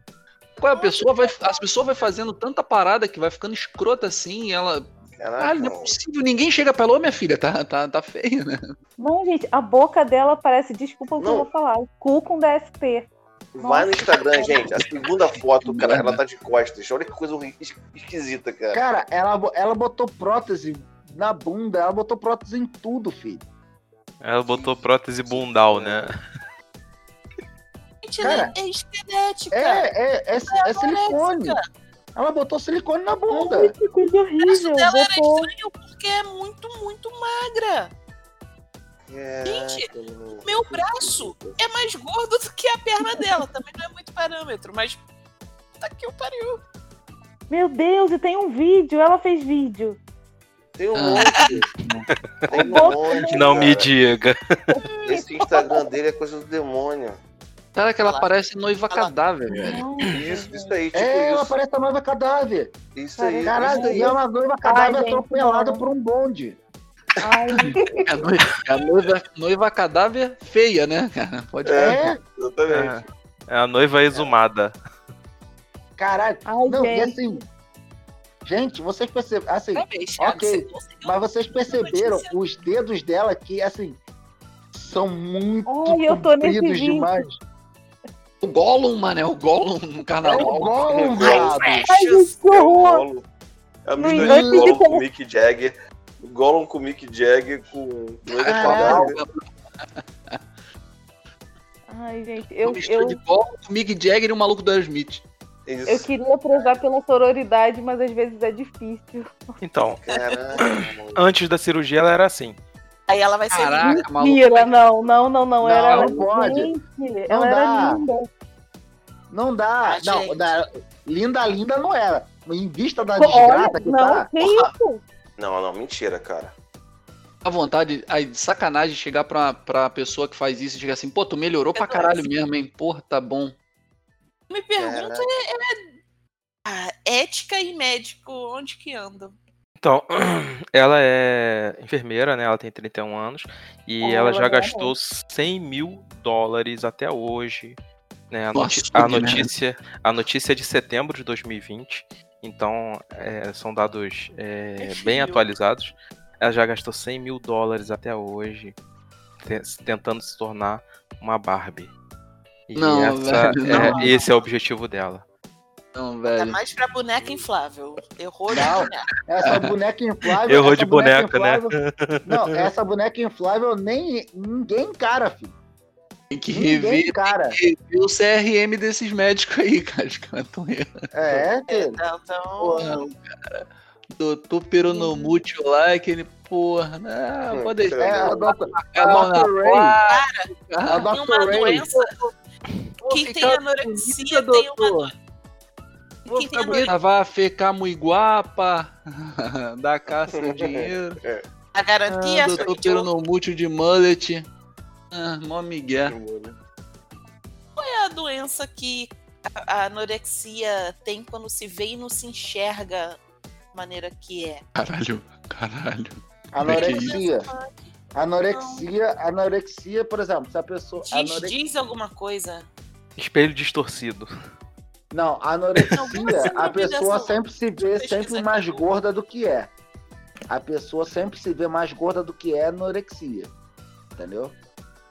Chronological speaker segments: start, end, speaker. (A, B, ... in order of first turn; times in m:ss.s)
0:00.6-0:08.6 A
0:00.7-0:01.7 B
0:05.2-0:06.0 C
0:09.0-0:13.1 D
0:11.2-0:11.5 C
0:13.6-0:18.8 C
0:13.6-0:14.6 D
0:15.6-0:16.2 A
0:18.7-0:23.4 E
0:24.2-0:26.2 F
0:25.2-0:26.1 C
0:28.0-0:29.9 B
0:28.2-0:28.6 E
0:29.5-0:31.6 E
0:30.5-0:31.6 B
0:32.2-0:33.7 E
0:33.3-0:35.5 D
0:34.4-0:37.9 B
0:39.1-0:41.6 C
0:39.4-0:39.9 B
0:40.4-0:45.0 B
0:45.8-0:46.6 B
0:47.5-0:50.0 D
0:50.8-0:51.7 C
0:50.9-0:52.1 A
0:51.2-0:51.5 B
0:52.5-0:53.9 C
0:52.5-0:53.6 D
0:52.6-0:54.4 F
0:54.7-0:55.3 D
0:55.0-0:57.2 C
0:57.8-0:59.9 A
0:58.0-0:58.3 B
0:58.9-0:59.2 B
0:59.6-1:00.7 D
1:00.0-1:01.5 C
1:00.9-1:02.8 E
1:03.0-1:04.2 C
1:03.2-1:05.8 D
1:03.4-1:06.6 E
1:07.2-1:08.0 D
1:07.6-1:08.3 C
1:07.6-1:12.0 A
1:11.6-1:13.0 C
1:11.8-1:12.2 E
1:12.7-1:14.8 F
1:16.0-1:17.4 E
1:16.5-1:17.2 D
1:18.4-1:24.0 E
1:19.7-1:22.4 B
1:24.7-1:27.4 E
1:25.7-1:27.2 D
1:28.4-1:30.8 A
1:30.2-1:31.9 E
1:30.9-1:31.7 C
1:31.1-1:32.3 B
1:31.9-1:33.0 D
1:32.4-1:33.2 C
1:33.8-1:39.2 C
1:34.0-1:35.0 D
1:34.1-1:34.8 E
1:38.3-1:39.4 A
1:38.5-1:39.2 E
1:41.9-1:43.2 D
1:42.6-1:45.3 A
1:45.7-1:46.8 C
1:45.9-1:49.4 D
1:49.6-1:52.6 F
1:50.0-1:51.2 C
1:53.1-1:54.7 B
1:53.5-1:54.5 A
1:53.8-1:58.3 D
1:55.6-1:56.7 E
1:57.3-1:58.0 E
1:59.3-2:04.3 E
1:59.8-2:00.5 B
2:03.2-2:05.0 D
2:05.4-2:06.5 C
2:07.4-2:13.6 A
2:11.8-2:12.3 B
2:14.5-2:16.0 B
2:14.8-2:15.2 C
2:16.7-2:19.4 B
2:19.8-2:27.8 F
2:24.0-2:25.0 D
2:28.3-2:38.8 F
2:28.5-2:29.5 A
2:34.8-2:35.5 B
2:39.4-2:41.9 F
2:42.7-2:45.2 F
2:42.8-2:44.2 A
2:43.7-2:44.4 B
2:46.0-2:46.6 A
2:46.3-2:49.1 B
2:47.2-2:47.4 C
2:48.5-2:55.6 E
2:49.4-2:49.8 A
2:50.5-2:52.7 F
2:56.3-3:01.1 A
2:56.5-2:57.6 E
3:01.1-3:02.0 E
3:01.7-3:02.9 B
3:02.6-3:02.9 E
3:02.7-3:11.1 A
3:04.9-3:05.3 D
3:07.5-3:08.6 C
3:08.0-3:10.0 E
3:10.1-3:10.5 B
3:10.9-3:11.9 E
3:11.0-3:12.2 B
3:11.9-3:12.3 A
3:13.0-3:15.1 A
3:13.0-3:15.1 B
3:16.3-3:17.0 B
3:16.3-3:21.2 A
3:20.3-3:21.4 C
3:21.7-3:23.1 B
3:22.1-3:24.5 A
3:25.1-3:26.2 A
3:26.1-3:26.6 C
3:27.8-3:33.2 B
3:33.7-3:34.6 B
3:34.8-3:37.2 A
3:36.5-3:37.5 E
3:36.7-3:37.9 B
3:38.2-3:41.6 E
3:38.5-3:38.9 B
3:41.0-3:42.7 B
3:43.2-3:44.3 F
3:45.1-3:49.7 E
3:45.9-3:48.9 B
3:50.5-3:53.5 E
3:54.2-3:54.6 E